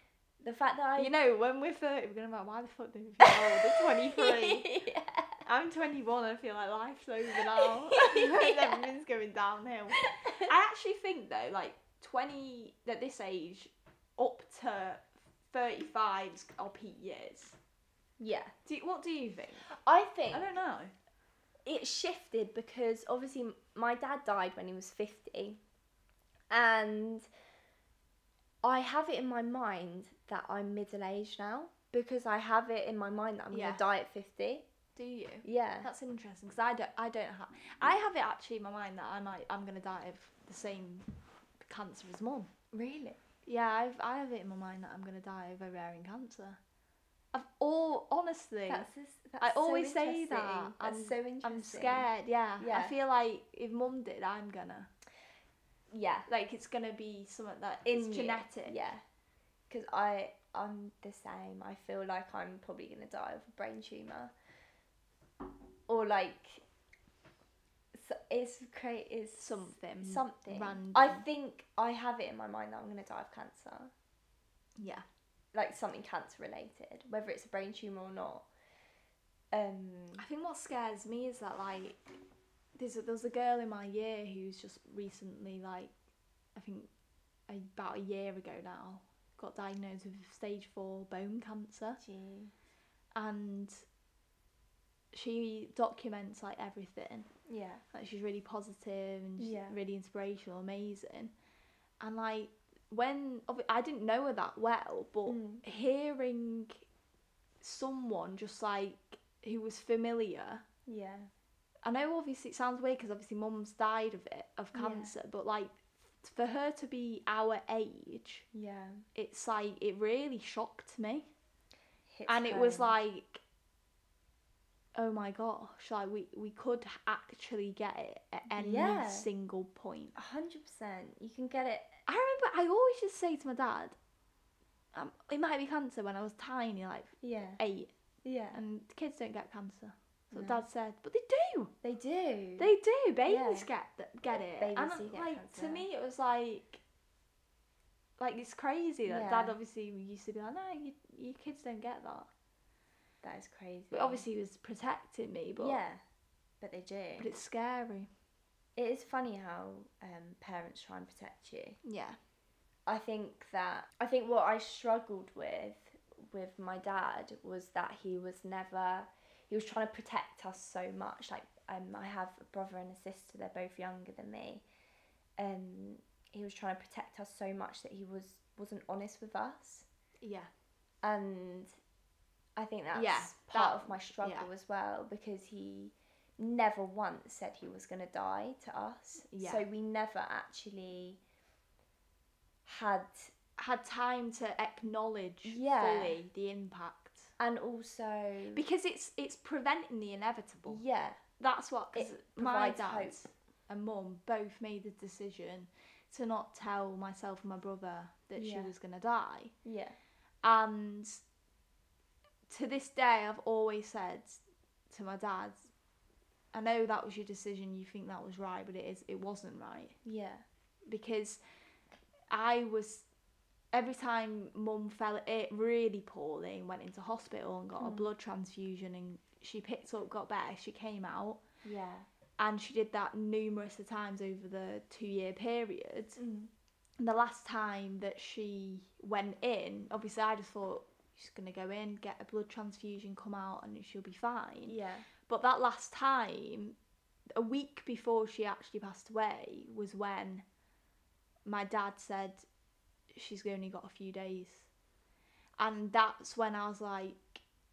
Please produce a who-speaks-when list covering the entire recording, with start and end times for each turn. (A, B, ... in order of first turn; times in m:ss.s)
0:00.4-0:01.1 A
0:01.0-0:04.7 B
0:03.2-0:05.4 A
0:05.4-0:17.6 B
0:07.6-0:08.8 A
0:10.0-0:10.5 A
0:18.2-0:18.5 A
0:18.6-0:19.7 B
0:19.7-0:20.5 A
0:20.3-0:20.9 B
0:21.6-0:25.6 A
0:26.5-0:27.3 A
0:28.6-0:34.7 A
0:33.5-0:33.8 B
0:35.0-0:41.1 B
0:35.4-0:35.9 A
0:41.6-0:42.5 B
0:42.7-0:43.2 A
0:43.4-0:46.6 B
0:47.3-0:48.9 B
0:48.7-0:53.0 A
0:49.4-0:54.9 B
0:55.9-0:56.3 A
0:56.3-0:58.8 B
0:57.9-0:59.0 A
0:59.7-1:04.3 A
1:05.9-1:06.6 A
1:07.9-1:13.9 A
1:09.4-1:11.3 B
1:14.8-1:15.0 B
1:15.5-1:18.5 A
1:19.5-1:20.2 A
1:20.2-1:22.0 B
1:22.8-1:25.9 B
1:26.6-1:26.9 B
1:27.5-1:32.0 B
1:32.0-1:32.5 A
1:33.2-1:33.8 B
1:35.1-1:37.3 B
1:37.5-1:37.8 A
1:37.9-1:41.3 B
1:39.4-1:39.8 A
1:42.0-1:46.9 B
1:45.3-1:45.6 A
1:47.6-1:50.6 B
1:50.9-1:51.3 A
1:51.8-1:58.5 B
1:54.7-1:55.1 A
1:58.5-1:59.0 A
1:59.2-2:01.3 B
2:02.1-2:02.9 A
2:02.3-2:03.4 B
2:05.0-2:10.2 B
2:08.6-2:09.3 A
2:10.2-2:12.0 A
2:12.1-2:14.0 B
2:14.9-2:17.9 B
2:17.2-2:17.6 A
2:18.2-2:18.6 A
2:18.5-2:21.7 B
2:20.3-2:20.6 A
2:21.8-2:22.7 A
2:22.6-2:26.8 B
2:23.3-2:23.7 A
2:24.3-2:25.9 A
2:28.2-2:32.3 B
2:29.1-2:29.6 A
2:33.2-2:34.2 A
2:33.9-2:35.8 B
2:35.6-2:36.0 A
2:36.6-2:37.3 A
2:37.2-2:38.1 B
2:38.8-2:41.8 A
2:41.8-2:42.2 B
2:42.9-2:54.6 A
2:55.4-2:59.9 A
3:00.2-3:00.5 B
3:01.0-3:01.7 A
3:02.6-3:11.2 A
3:02.9-3:04.5 B
3:09.3-3:09.6 B
3:12.6-3:13.3 A
3:13.6-3:17.3 B
3:15.4-3:16.2 A
3:17.4-3:18.6 A
3:18.5-3:20.8 B
3:20.7-3:21.2 A
3:21.4-3:29.5 B
3:21.9-3:23.2 A
3:28.4-3:28.7 A
3:29.6-3:30.0 A
3:30.4-3:31.2 B
3:32.5-3:35.7 B
3:36.5-3:40.0 B
3:40.0-3:40.4 A
3:40.9-3:41.4 B
3:42.3-3:43.1 B
3:43.7-3:51.4 B
3:47.8-3:48.1 A
3:51.6-3:52.1 A
3:52.4-3:56.2 B
3:56.2-3:56.5 A
3:57.0-4:06.8 B
4:04.7-4:05.1 A
4:07.4-4:10.4 B
4:11.5-4:12.5 B
4:13.1-4:14.7 B
4:15.6-4:17.4 B